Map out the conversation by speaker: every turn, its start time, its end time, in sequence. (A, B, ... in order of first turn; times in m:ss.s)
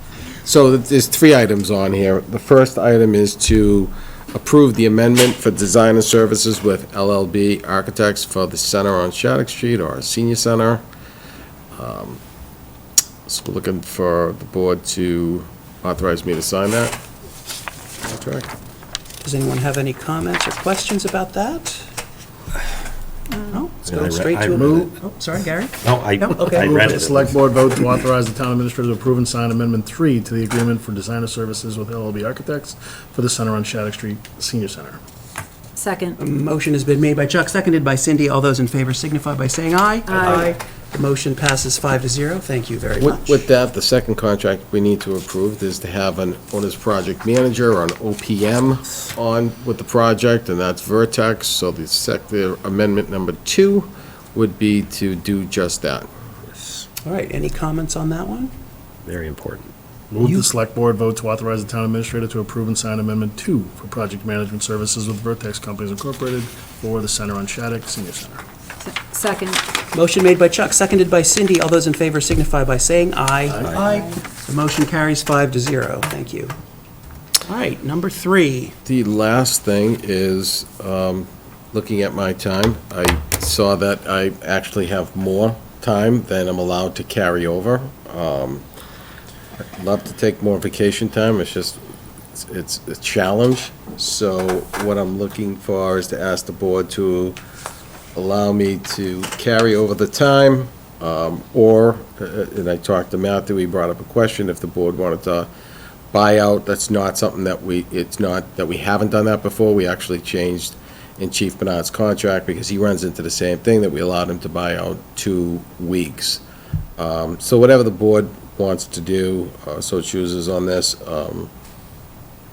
0:00.4-0:10.8 A
0:11.7-0:12.2 A
0:13.2-0:17.0 A
0:18.0-0:18.5 A
0:19.2-0:21.9 B
0:23.3-0:23.6 C
0:23.5-0:26.7 B
0:23.8-0:24.9 D
0:24.5-0:24.9 E
0:25.8-0:27.4 D
0:26.5-0:35.0 E
0:35.7-0:36.2 C
0:36.2-0:43.4 B
0:40.1-0:40.5 C
0:43.0-0:56.1 A
0:57.0-0:58.5 B
0:59.0-0:59.7 D
1:00.1-1:08.4 E
1:08.8-1:09.6 C
1:09.9-1:16.5 B
1:13.4-1:13.7 E
1:13.8-1:14.1 C
1:17.4-1:18.7 B
1:18.8-1:28.6 A
1:29.6-1:31.8 A
1:32.3-1:37.4 A
1:38.1-1:45.5 A
1:46.1-1:56.4 A
1:57.0-2:01.5 A